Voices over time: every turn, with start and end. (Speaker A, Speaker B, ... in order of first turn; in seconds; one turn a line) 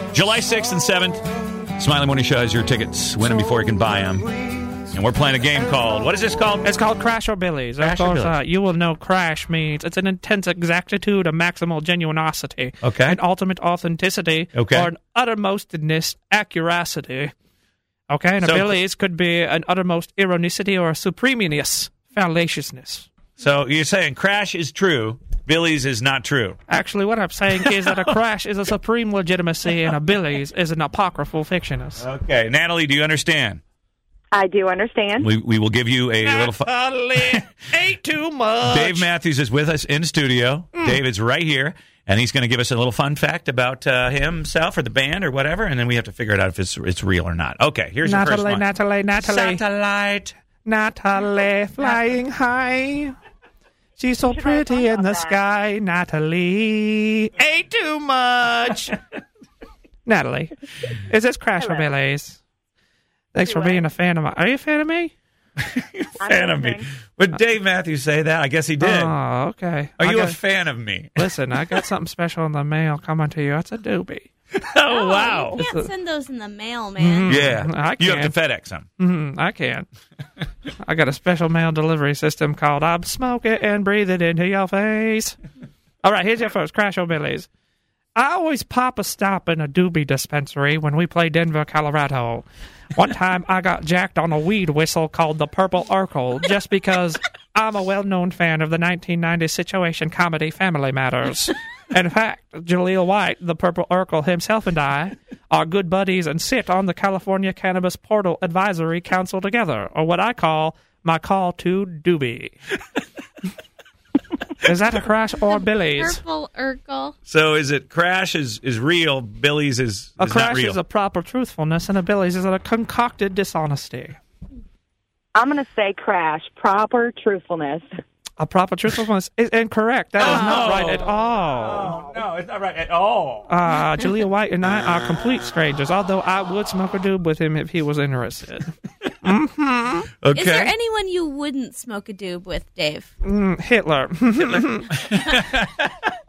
Speaker A: 0.1-1.2
Speaker A: 1.8-4.3
Speaker A: 4.9-6.7
Speaker B: 6.6-17.3
Speaker A: 7.8-8.4
Speaker A: 12.8-13.2
Speaker A: 14.5-14.9
Speaker B: 18.1-23.1
Speaker A: 18.4-18.8
Speaker A: 23.4-26.6
Speaker B: 26.7-32.0
Speaker A: 27.6-28.1
Speaker A: 32.0-33.6
Speaker C: 34.3-35.3
Speaker A: 35.2-37.4
Speaker B: 36.2-39.1
Speaker A: 38.7-50.4
Speaker B: 40.7-41.0
Speaker B: 48.0-49.6
Speaker B: 50.6-53.1
Speaker B: 54.0-59.0
Speaker C: 54.2-55.4
Speaker B: 60.0-62.4
Speaker C: 61.6-61.9
Speaker B: 63.3-65.1
Speaker C: 63.5-63.8
Speaker A: 65.6-69.1
Speaker C: 66.2-66.9
Speaker B: 68.8-70.4
Speaker A: 70.0-71.8
Speaker B: 71.2-74.3
Speaker A: 74.5-75.6
Speaker D: 74.9-77.5
Speaker B: 75.5-75.9
Speaker B: 77.0-78.4
Speaker A: 77.3-78.9
Speaker B: 79.0-79.8
Speaker B: 80.8-85.3
Speaker B: 86.0-87.5
Speaker B: 88.1-112.5
Speaker B: 114.6-116.2
Speaker D: 115.5-117.1
Speaker A: 117.3-120.8
Speaker B: 120.2-124.2
Speaker C: 125.3-127.9
Speaker B: 128.4-132.2
Speaker A: 130.2-133.5
Speaker D: 130.2-131.0
Speaker B: 133.5-140.1
Speaker A: 140.2-140.7
Speaker D: 140.3-143.1
Speaker B: 143.2-144.9
Speaker A: 145.1-145.8
Speaker D: 145.1-145.4